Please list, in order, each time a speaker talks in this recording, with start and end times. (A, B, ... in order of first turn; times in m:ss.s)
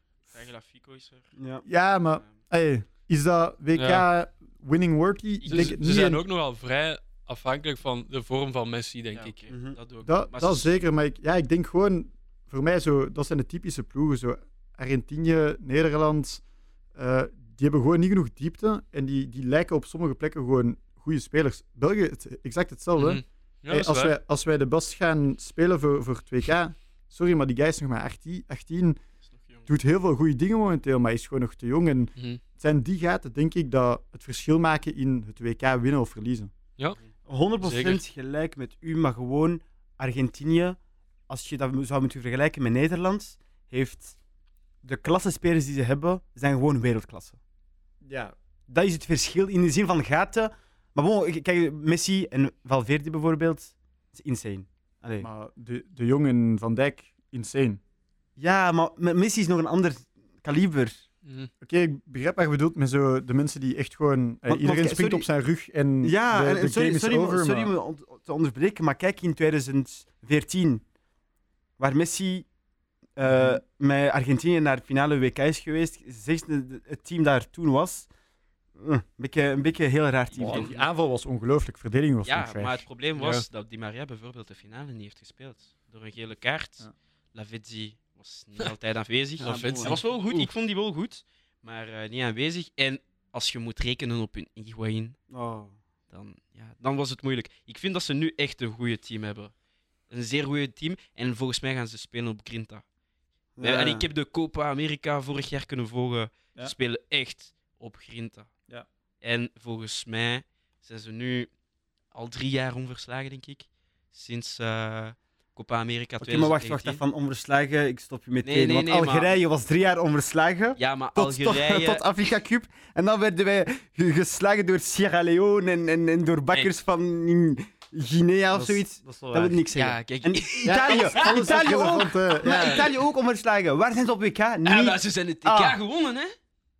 0:00.3-0:01.3 A
0:01.4-0:01.6 B
0:01.6-0:06.2 C
0:03.8-0:04.0 D
0:05.4-0:09.4 D
0:09.1-0:10.7 A
0:09.5-0:09.8 B
0:10.0-0:16.4 C
0:17.0-0:29.0 C
0:23.0-0:24.2 D
0:29.2-0:29.7 A
0:29.7-0:36.5 C
0:37.3-0:40.8 B
0:37.6-0:38.0 D
0:41.3-0:44.2 B
0:44.8-0:47.4 B
0:48.0-0:48.4 C
0:48.7-0:55.3 B
0:55.2-0:57.8 C
0:58.4-1:01.0 B
1:01.2-1:01.5 D
1:01.6-1:07.7 C
1:04.5-1:05.3 B
1:06.0-1:10.8 B
1:11.8-1:12.5 B
1:13.2-1:18.1 B
1:13.3-1:13.6 C
1:18.8-1:20.7 B
1:20.3-1:20.9 A
1:20.4-1:22.9 C
1:22.3-1:35.2 A
1:23.2-1:23.4 D
1:29.4-1:30.1 D
1:29.4-1:30.5 B
1:35.3-1:35.8 B
1:36.1-1:39.5 A
1:40.1-1:42.8 A
1:43.6-1:44.1 B
1:43.6-1:48.5 A
1:49.2-1:51.5 A
1:52.1-1:57.0 A
1:56.2-2:15.8 B
1:58.4-1:59.3 A
2:00.8-2:02.0 A
2:08.5-2:09.6 C
2:09.7-2:11.7 A
2:10.6-2:12.9 C
2:12.4-2:12.9 A
2:14.6-2:16.4 A